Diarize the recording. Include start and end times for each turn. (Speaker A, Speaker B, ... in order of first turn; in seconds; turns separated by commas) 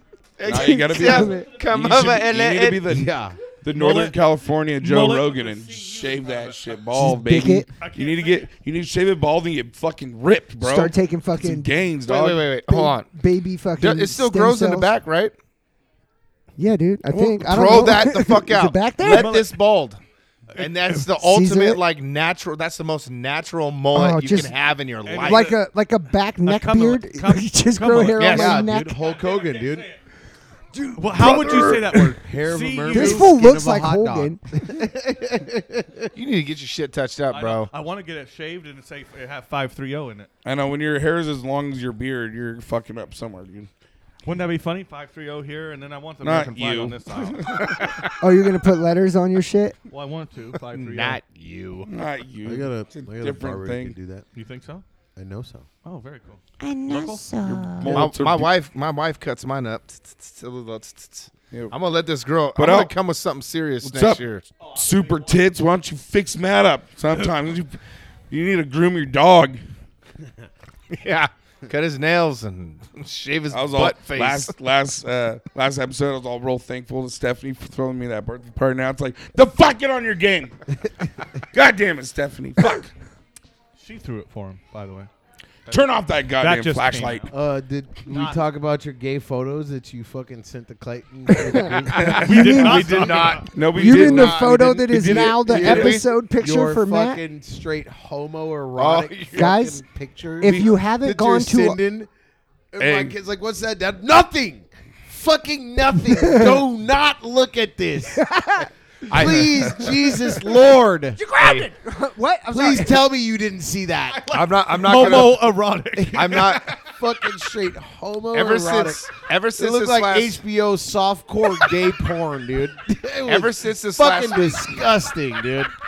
Speaker A: 0.4-2.8, Speaker B: 0.4-3.1, Speaker C: 0.5-1.5, Speaker D: 2.8-3.4, Speaker B: 3.6-12.4, Speaker E: 3.7-4.2, Speaker E: 4.8-6.8, Speaker C: 6.9-7.7, Speaker E: 7.8-8.5, Speaker C: 10.6-11.7, Speaker A: 12.0-13.1, Speaker C: 12.7-14.9, Speaker A: 13.8-15.3, Speaker C: 16.6-19.3, Speaker A: 17.1-20.0, Speaker E: 19.0-19.5, Speaker E: 20.5-21.1, Speaker A: 20.6-25.5, Speaker C: 21.2-21.8, Speaker C: 23.9-24.5, Speaker E: 25.0-25.6, Speaker C: 25.2-29.0, Speaker E: 26.4-29.9, Speaker A: 28.2-28.6, Speaker D: 28.2-29.9, Speaker C: 30.7-31.4, Speaker E: 30.9-33.3, Speaker B: 31.1-32.0, Speaker D: 32.2-36.1, Speaker C: 32.9-34.4, Speaker A: 36.1-37.7, Speaker E: 37.3-40.3, Speaker B: 40.4-43.7, Speaker E: 44.2-47.8, Speaker B: 46.2-47.8, Speaker C: 48.2-49.8, Speaker E: 49.9-51.2, Speaker A: 50.8-51.9, Speaker B: 51.9-54.0, Speaker D: 52.4-54.2, Speaker E: 54.3-54.8, Speaker D: 55.1-55.7, Speaker E: 55.8-57.3, Speaker C: 56.6-58.0, Speaker B: 57.4-58.5, Speaker A: 57.8-64.5, Speaker B: 62.5-62.9, Speaker B: 63.8-64.2, Speaker E: 64.6-65.3, Speaker B: 64.7-67.8, Speaker B: 68.3-69.6, Speaker A: 70.9-74.5, Speaker B: 73.5-80.5, Speaker B: 81.5-82.9, Speaker E: 83.8-85.1, Speaker E: 85.7-87.3, Speaker B: 85.7-87.3, Speaker D: 87.3-92.6, Speaker E: 88.0-88.4, Speaker C: 91.3-97.2, Speaker A: 91.9-94.5, Speaker B: 92.0-92.5, Speaker E: 92.2-93.5, Speaker B: 93.5-95.8, Speaker D: 94.9-102.1, Speaker A: 95.5-96.0, Speaker A: 98.8-99.7, Speaker C: 99.3-99.8, Speaker C: 100.4-101.8, Speaker B: 100.4-100.7, Speaker D: 102.7-108.3, Speaker B: 102.8-103.1, Speaker C: 106.2-106.6, Speaker C: 108.1-108.7, Speaker D: 109.1-111.2, Speaker A: 109.1-109.9, Speaker C: 111.2-113.0, Speaker A: 111.3-111.7, Speaker D: 112.5-115.4, Speaker E: 114.2-116.8, Speaker A: 114.3-115.5, Speaker D: 115.9-125.7, Speaker A: 116.1-116.7, Speaker A: 118.3-120.4, Speaker A: 123.2-124.8